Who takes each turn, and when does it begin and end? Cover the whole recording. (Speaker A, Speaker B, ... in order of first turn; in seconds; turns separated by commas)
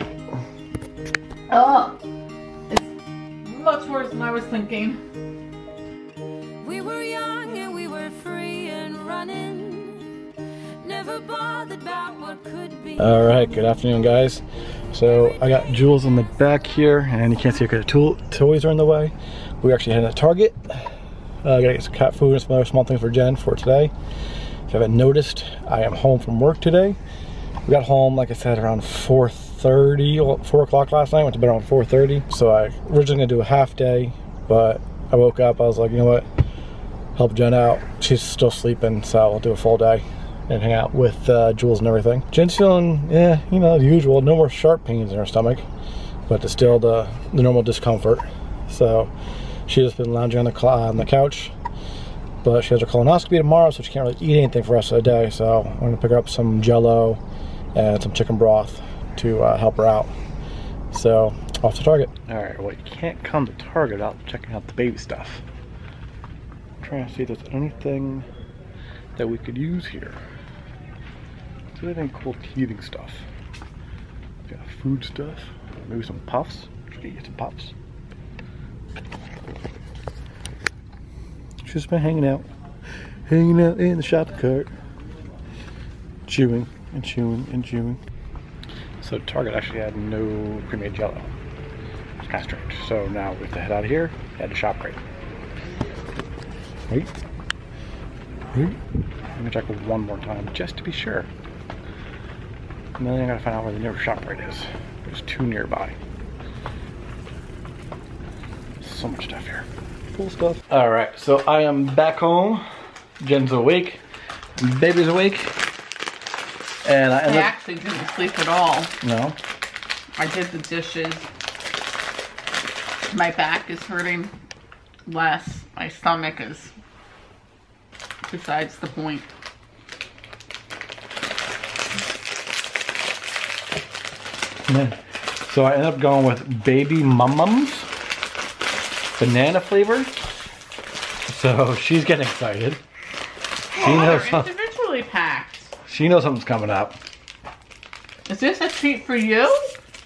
Speaker A: 1.5-1.9, Speaker A: 3.4-5.0, Speaker B: 6.6-10.2, Speaker B: 10.8-13.2, Speaker C: 13.0-23.9, Speaker C: 24.7-27.0, Speaker C: 27.6-36.3, Speaker C: 37.1-45.6, Speaker C: 46.3-49.1, Speaker C: 49.7-51.5, Speaker C: 52.4-57.2, Speaker C: 57.7-60.1, Speaker C: 60.9-65.4, Speaker C: 66.8-68.3, Speaker C: 69.2-70.2, Speaker C: 71.8-73.2, Speaker C: 74.5-77.7, Speaker C: 81.6-82.5, Speaker C: 83.2-84.7, Speaker C: 86.3-88.0, Speaker C: 89.0-91.3, Speaker C: 92.2-95.0, Speaker C: 96.9-97.2, Speaker C: 98.5-98.8, Speaker C: 99.4-101.3, Speaker C: 103.0-106.0, Speaker C: 108.8-112.6, Speaker C: 113.2-114.0, Speaker C: 114.6-115.5, Speaker C: 116.8-117.5, Speaker A: 117.2-118.9, Speaker C: 119.0-119.4, Speaker A: 120.2-121.3, Speaker A: 123.1-124.3, Speaker A: 125.1-126.7, Speaker A: 128.3-129.3, Speaker C: 134.7-137.9, Speaker C: 139.2-140.1, Speaker C: 141.3-142.8, Speaker A: 143.7-145.7, Speaker C: 143.7-144.5, Speaker C: 145.8-147.0, Speaker A: 148.3-149.6